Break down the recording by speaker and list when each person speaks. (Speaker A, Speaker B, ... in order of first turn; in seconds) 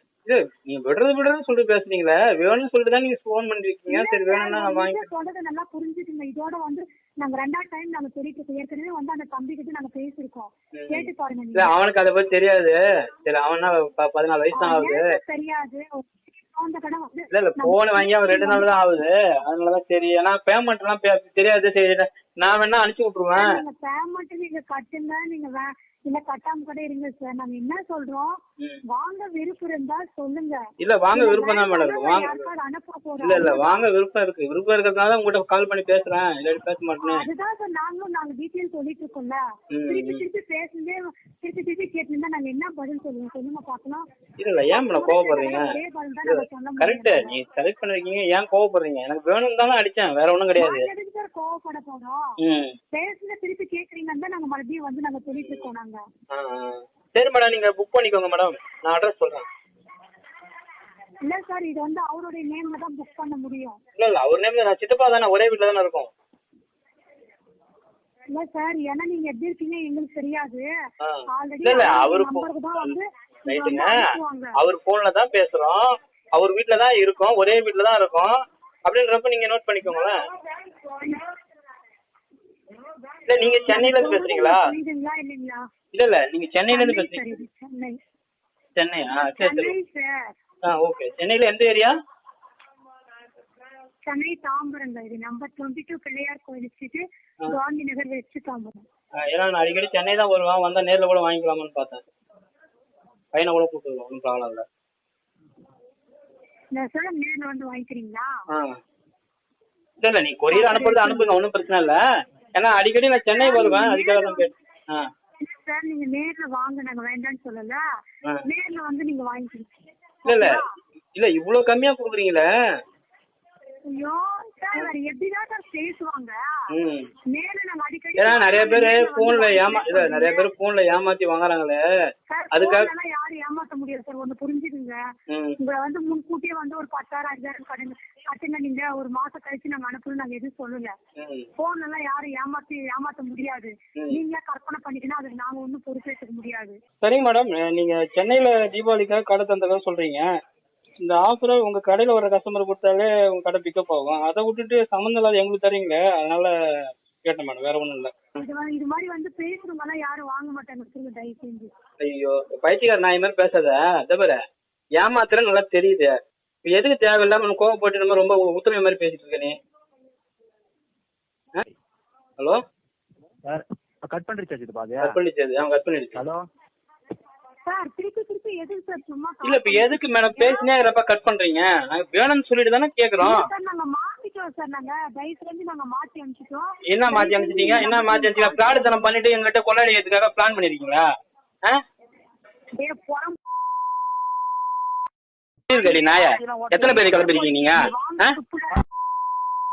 Speaker A: 0.2-5.0, 10.8-15.0, 17.3-23.5, 30.8-32.5, 33.2-37.3, 39.7-40.2, 44.4-45.7, 46.2-50.9, 52.4-52.8, 55.4-55.7, 56.3-59.4, 64.0-66.1, 71.0-73.0, 73.5-74.0, 74.6-75.8, 76.4-78.3, 78.8-80.2, 83.3-84.6, 85.9-87.4, 88.8-89.7, 90.6-91.9, 99.3-102.0, 103.3-104.6, 110.0-112.0, 112.6-115.0, 120.2-120.5, 121.2-122.5, 126.7-127.1, 128.2-131.8, 132.5-132.9, 135.3-135.6, 141.2-141.5, 147.0-150.3, 151.0-156.5, 157.2-158.1, 162.0-164.4, 165.0-166.1, 166.6-169.6, 175.0-176.2, 179.4-183.4, 186.9-191.1, 195.7-198.3
Speaker B: 3.9-11.8, 14.6-18.8, 23.4-30.6, 31.1-33.8, 37.0-44.0, 44.7-47.3, 50.6-52.2, 52.9-56.0, 61.2-63.8, 68.3-70.6, 71.3-74.5, 80.8-81.0, 83.7-85.6, 86.7-88.0, 89.2-90.1, 94.1-98.8, 106.7-108.3, 110.5-111.3, 113.4-114.5, 115.4-117.8, 118.4-119.7, 120.2-120.7, 123.9-126.4, 127.3-130.5, 132.3-135.0, 135.6-140.9, 141.6-146.8, 158.4-161.7, 177.7-180.7, 183.2-189.1, 192.8-193.4, 195.7-196.1, 196.8-198.8
Speaker C: 173.5-175.2, 176.1-176.4, 196.1-197.2